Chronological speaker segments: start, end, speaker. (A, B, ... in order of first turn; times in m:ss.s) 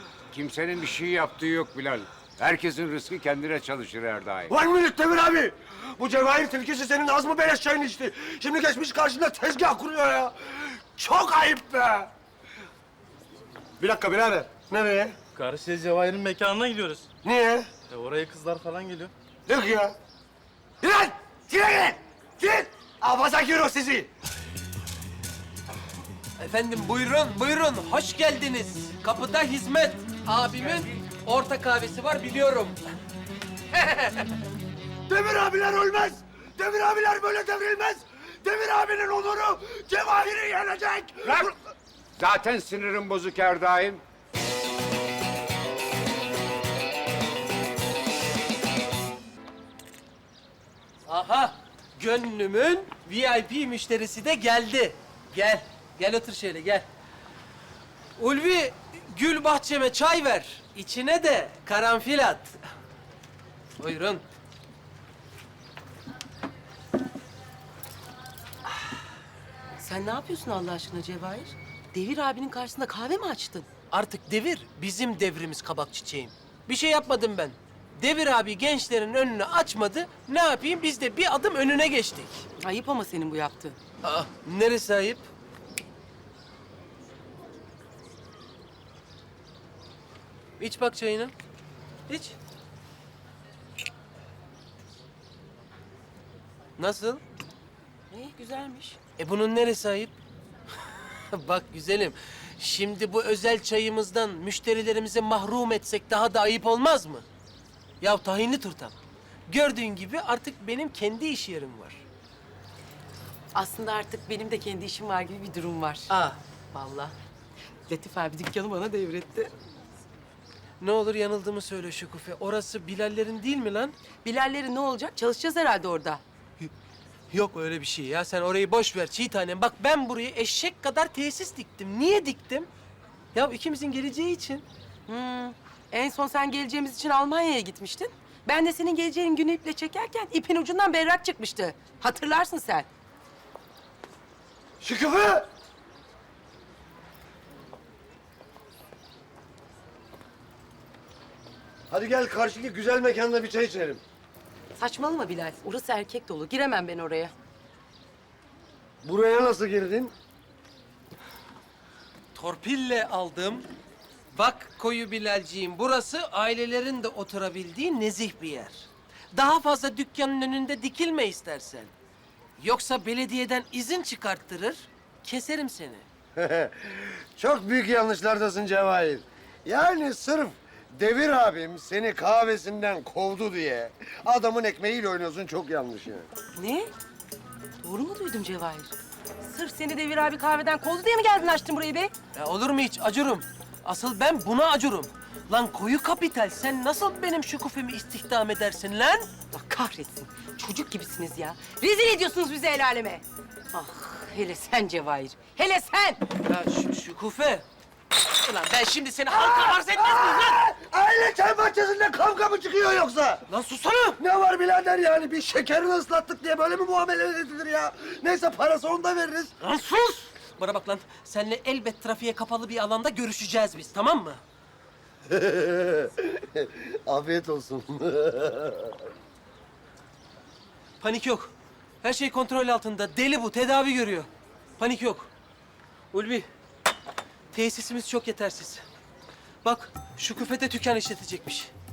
0:00.3-0:04.5 A
0:04.5-0:12.1 B
0:13.8-0:15.2 B
0:15.4-0:17.1 C
0:17.2-0:17.7 B
0:17.9-0:19.1 C
0:19.5-0:20.0 B
0:20.8-0:24.1 B
0:26.4-0:32.8 D
0:33.7-0:34.3 D
0:35.1-0:41.5 B
0:42.2-0:44.0 A
0:51.1-0:56.9 D
0:58.2-1:02.6 D
1:03.8-1:04.2 D
1:09.8-1:13.7 E
1:13.9-1:22.4 D
1:22.6-1:23.8 E
1:24.0-1:25.3 D
1:30.6-1:31.3 D
1:32.1-1:32.4 D
1:36.8-1:37.2 D
1:38.1-1:39.0 E
1:39.2-1:40.2 D
1:41.3-1:47.2 D
1:48.0-1:49.0 D
1:49.5-1:52.0 D
1:53.6-1:56.1 E
1:56.1-1:56.4 D
1:56.7-1:57.1 E
1:57.9-1:59.5 E
2:00.8-2:03.9 D
2:04.2-2:06.2 E
2:07.3-2:12.7 D
2:13.3-2:14.6 D
2:15.1-2:22.9 E
2:24.8-2:25.5 B
2:31.9-2:34.0 B
2:34.8-2:37.3 E
2:39.0-2:40.1 B
2:42.4-2:43.7 D
2:44.3-2:51.9 D
2:52.6-2:56.0 D
2:56.4-3:06.3 B
3:06.6-3:06.9 E
3:07.8-3:12.1 E
3:12.3-3:19.3 D
3:19.5-3:26.2 E
3:26.4-3:27.6 D
3:28.2-3:30.6 D
3:29.3-3:33.5 B
3:33.5-3:34.2 D
3:34.2-3:39.6 B
3:39.6-3:44.4 D
3:45.3-3:48.9 B
3:51.0-3:55.3 D
3:56.1-3:56.5 D
3:57.5-3:58.8 D
3:59.6-4:01.7 D